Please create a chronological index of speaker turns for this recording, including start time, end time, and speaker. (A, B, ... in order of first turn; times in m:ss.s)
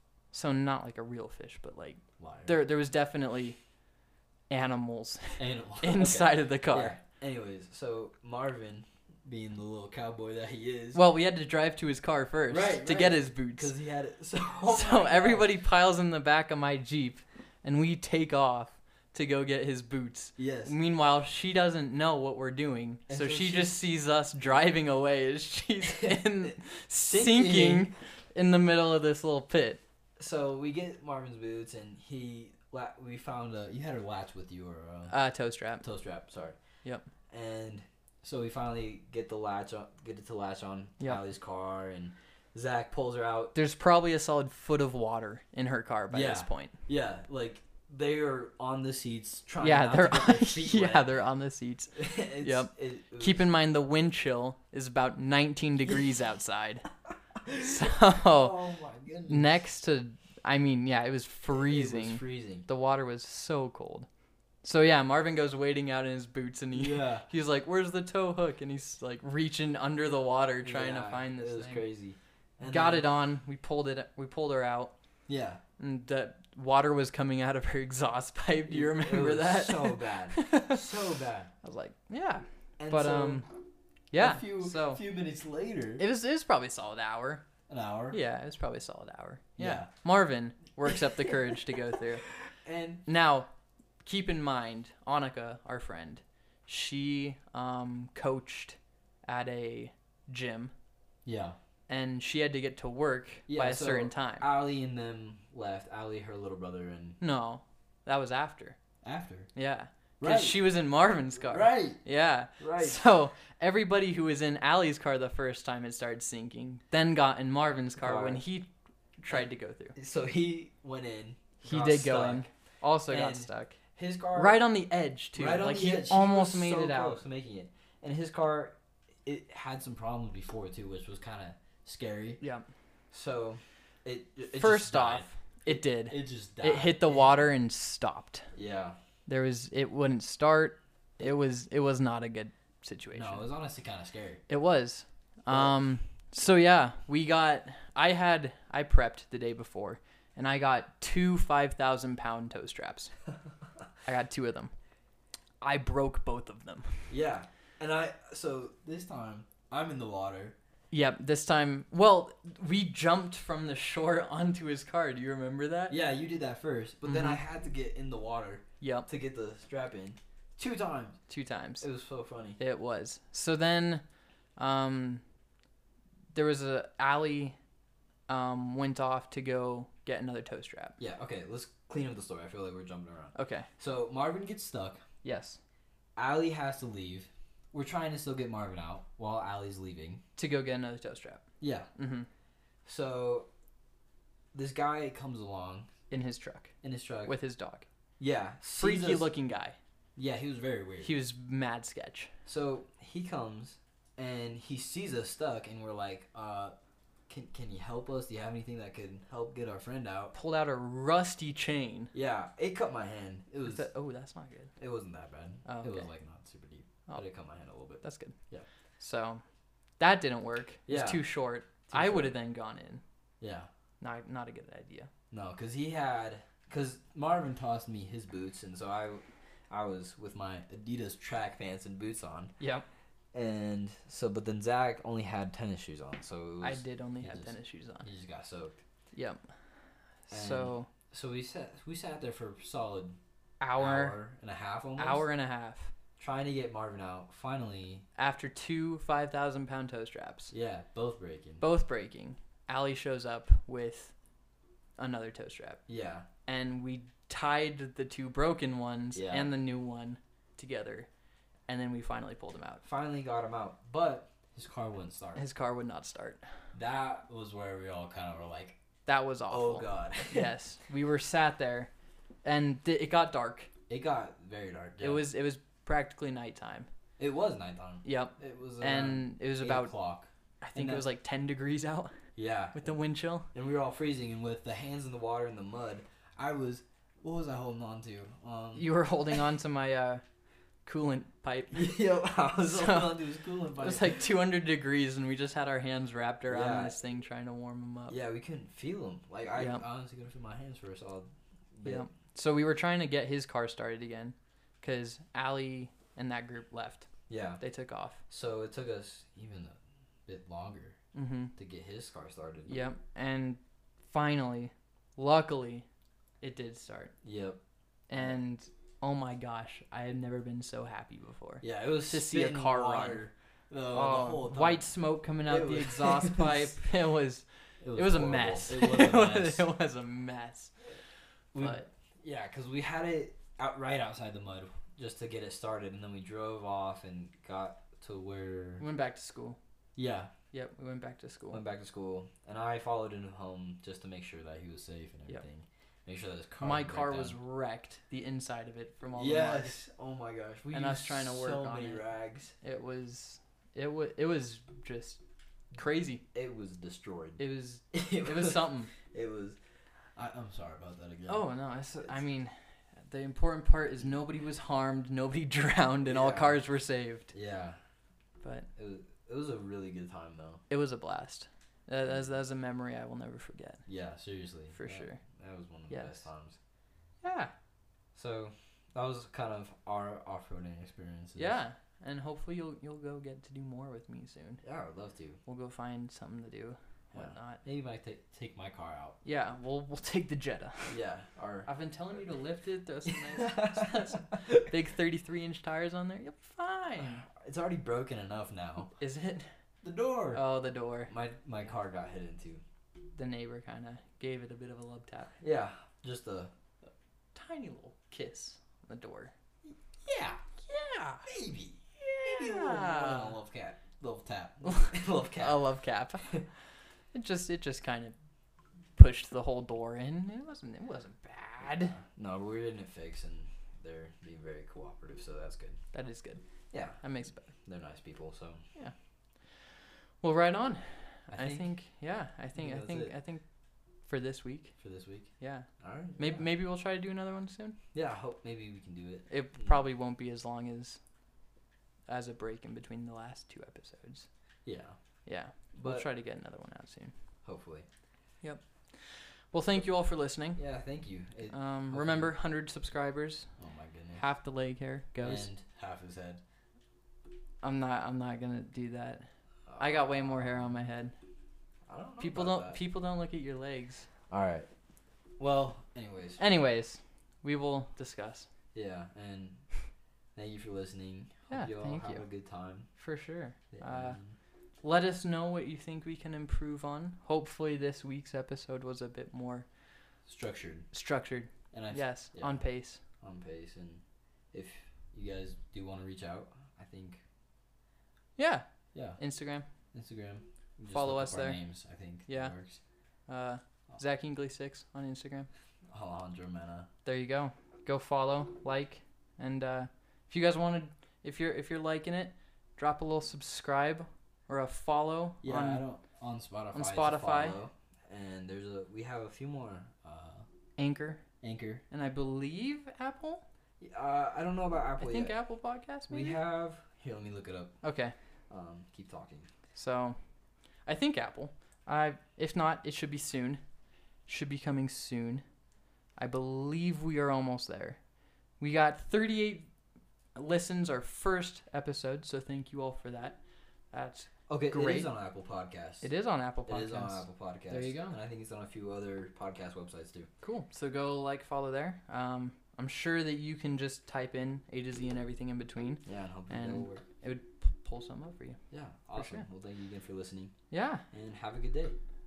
0:00.3-0:03.6 A
0:02.2-0:02.6 B
0:04.5-0:07.0 A
0:05.4-0:11.0 B
0:10.9-0:13.7 A
0:12.5-0:15.5 B
0:14.7-0:29.8 A
0:20.4-0:20.7 B
0:23.1-0:23.8 B
0:27.1-0:27.9 B
0:30.2-0:35.2 B
0:35.1-0:35.8 A
0:35.8-0:36.6 B
0:37.3-0:43.5 B
0:43.6-0:46.7 A
0:46.1-0:51.1 B
0:49.6-0:56.9 A
0:51.9-0:53.4 B
0:57.4-0:59.6 B
0:57.6-0:58.6 A
0:59.3-1:04.1 A
1:01.5-1:02.7 B
1:04.6-1:11.9 A
1:06.7-1:07.3 B
1:10.6-1:13.1 B
1:12.6-1:14.9 A
1:15.3-1:15.6 B
1:15.8-1:20.9 A
1:18.7-1:21.5 B
1:21.6-1:23.5 A
1:22.8-1:23.6 B
1:24.1-1:25.0 A
1:24.1-1:26.0 B
1:26.0-1:27.4 A
1:27.7-1:28.2 B
1:28.1-1:32.2 A
1:29.6-1:29.9 B
1:30.9-1:31.4 B
1:32.5-1:33.0 B
1:33.1-1:33.5 A
1:34.0-1:40.7 A
1:41.2-1:41.6 B
1:41.9-1:44.5 A
1:43.5-1:47.2 B
1:47.2-1:48.8 A
1:49.0-1:49.5 B
1:49.6-1:59.9 A
1:50.2-1:50.6 B
1:51.4-1:52.0 B
1:52.6-1:53.0 B
1:58.0-1:58.4 B
1:59.3-2:02.5 B
2:01.6-2:03.8 A
2:03.1-2:04.6 B
2:04.4-2:07.2 A
2:05.3-2:12.4 B
2:12.4-2:12.6 A
2:13.1-2:17.4 B
2:14.6-2:18.5 A
2:18.5-2:19.0 B
2:19.2-2:23.4 A
2:23.1-2:24.4 B
2:24.5-2:33.1 A
2:25.5-2:25.8 B
2:34.0-2:34.7 A
2:35.6-2:37.1 A
2:37.1-2:40.6 B
2:40.9-2:45.9 A
2:45.9-2:51.2 B
2:47.0-2:47.4 A
2:48.8-2:49.1 A
2:51.3-2:51.8 A
2:51.8-2:52.6 B
2:52.6-2:54.0 A
2:54.6-2:55.2 A
2:56.3-2:57.6 A
2:58.3-3:01.0 A
3:01.0-3:05.0 B
3:03.4-3:03.7 A
3:05.2-3:05.6 A
3:06.2-3:10.2 B
3:10.4-3:11.4 A
3:11.6-3:11.9 B
3:12.0-3:12.3 A
3:12.8-3:13.5 B
3:14.5-3:15.9 B
3:16.1-3:17.9 A
3:16.8-3:17.4 B
3:18.2-3:19.3 B
3:18.8-3:19.8 A
3:20.2-3:21.1 B
3:21.0-3:22.3 A
3:22.4-3:26.8 B
3:27.3-3:30.4 B
3:30.3-3:32.1 A
3:32.1-3:33.9 B
3:33.6-3:34.7 A
3:34.8-3:38.7 B
3:35.6-3:36.1 A
3:38.0-3:38.4 A
3:39.0-3:39.4 A
3:40.0-3:43.0 A
3:40.9-3:41.2 B
3:41.8-3:42.4 B
3:43.4-3:43.7 B
3:44.0-3:45.1 A
3:45.3-3:52.6 B
3:52.6-3:52.9 A
3:53.3-3:58.8 B
3:56.6-3:58.1 A
3:59.1-3:59.4 A
4:00.3-4:00.9 A
4:00.3-4:03.2 B
4:03.6-4:04.2 A
4:03.8-4:05.2 B
4:05.0-4:05.9 A
4:06.2-4:08.0 B
4:08.2-4:10.5 A
4:10.5-4:11.6 B
4:11.6-4:14.1 A
4:15.0-4:15.8 A
4:15.9-4:16.2 B
4:16.4-4:21.1 A
4:19.1-4:19.5 B
4:21.7-4:22.8 A
4:22.8-4:25.4 B
4:25.4-4:26.4 A
4:26.7-4:28.8 B
4:29.1-4:31.9 A
4:29.5-4:30.5 B
4:32.4-4:33.7 A
4:33.9-4:35.2 B
4:35.0-4:36.9 A
4:37.2-4:41.1 B
4:38.0-4:39.9 A
4:40.6-4:42.2 A
4:42.4-4:43.0 B
4:42.7-4:43.5 A
4:43.5-4:48.9 B
4:48.8-4:50.2 A
4:50.8-4:52.0 A
4:51.7-4:54.2 B
4:52.6-4:53.2 A
4:53.8-4:58.2 A
4:56.5-4:57.0 B
4:58.1-5:02.1 B
4:59.6-4:59.8 A
5:01.8-5:08.2 A
5:07.3-5:07.6 B
5:08.3-5:11.0 B
5:11.1-5:11.5 A
5:11.6-5:12.8 B
5:12.7-5:15.9 A
5:16.4-5:17.1 A
5:17.2-5:17.6 B
5:18.1-5:23.2 A
5:21.6-5:24.9 B
5:23.9-5:30.7 A
5:25.4-5:26.7 B
5:27.8-5:29.6 B
5:31.5-5:38.8 B
5:31.6-5:31.9 A
5:38.8-5:39.6 A
5:40.0-5:40.3 B
5:40.5-5:41.6 A
5:41.5-5:47.4 B
5:46.6-5:49.8 A
5:49.1-5:52.6 B
5:50.7-5:52.0 A
5:52.6-5:55.2 A
5:55.7-5:56.2 A
5:56.3-5:59.6 B
5:57.4-5:58.9 A
6:00.2-6:02.2 B
6:01.3-6:07.3 A
6:06.0-6:06.6 B
6:07.3-6:07.8 B
6:08.4-6:08.7 A
6:08.8-6:10.6 B
6:10.7-6:13.8 A
6:13.9-6:16.6 B
6:14.7-6:15.2 A
6:15.9-6:16.3 A
6:17.2-6:17.5 A
6:18.1-6:21.6 B
6:21.4-6:24.6 A
6:24.6-6:25.4 B
6:25.4-6:27.6 A
6:27.1-6:29.2 B
6:29.2-6:31.0 A
6:30.9-6:31.7 B
6:31.6-6:37.2 A
6:33.1-6:34.6 B
6:37.0-6:38.9 B
6:39.0-6:39.5 A
6:39.8-6:40.4 B
6:40.3-6:41.1 A
6:41.1-6:42.6 B
6:43.2-6:45.3 A
6:45.4-6:46.5 B
6:47.3-6:49.3 A
6:50.0-6:50.4 B
6:50.6-6:51.3 A
6:51.2-6:55.6 B
6:52.0-6:53.4 A
6:54.6-6:56.3 A
6:57.1-6:58.1 A
6:59.0-7:01.9 A
7:01.6-7:05.8 B
7:05.9-7:06.4 A
7:06.7-7:08.6 B
7:07.0-7:07.5 A
7:10.2-7:13.4 A
7:11.3-7:11.7 B
7:12.6-7:13.1 B
7:14.1-7:14.8 A
7:14.8-7:16.4 B
7:15.4-7:17.8 A
7:17.9-7:19.8 B
7:19.3-7:21.0 A
7:22.1-7:24.3 A
7:24.6-7:25.0 B
7:25.2-7:27.1 A
7:25.7-7:26.1 B
7:27.4-7:27.9 B
7:28.4-7:30.6 A
7:30.6-7:32.3 B
7:31.5-7:33.5 A
7:33.6-7:34.2 B
7:34.1-7:35.5 A
7:35.2-7:36.4 B
7:37.6-7:39.2 A
7:39.7-7:40.7 B
7:39.8-7:41.1 A
7:41.9-7:42.8 B
7:42.2-7:44.1 A
7:44.3-7:44.7 B
7:45.4-7:46.4 B
7:46.4-7:48.5 A
7:48.7-7:49.6 B
7:50.4-7:52.9 B
7:51.5-7:52.2 A
7:53.0-7:54.2 A
7:53.7-7:54.4 B
7:54.8-7:59.6 A
8:00.3-8:00.9 B
8:00.9-8:03.0 A
8:01.7-8:02.7 B
8:03.2-8:07.2 B
8:08.4-8:08.6 A
8:08.9-8:09.2 B
8:09.2-8:09.6 A
8:09.9-8:12.8 B
8:10.9-8:11.6 A
8:12.3-8:12.6 A
8:13.3-8:15.5 A
8:15.9-8:16.9 B
8:17.0-8:25.8 A
8:25.4-8:30.4 B
8:26.7-8:27.6 A
8:30.8-8:31.2 A
8:31.4-8:31.8 B
8:31.9-8:33.4 A
8:33.8-8:35.4 B
8:35.0-8:36.4 A
8:36.1-8:37.8 B
8:37.8-8:38.1 A
8:38.5-8:39.5 B
8:39.7-8:40.2 A
8:40.9-8:43.6 A
8:44.3-8:45.4 A
8:46.2-8:48.0 A
8:48.6-8:49.7 A
8:50.4-8:53.4 A
8:53.9-8:55.1 A
8:54.5-8:56.1 B
8:56.0-8:58.1 A
8:56.6-9:00.3 B
9:00.4-9:08.6 A
9:06.0-9:07.0 B
9:08.7-9:10.5 B
9:09.1-9:09.5 A
9:10.7-9:11.0 A
9:11.1-9:12.0 B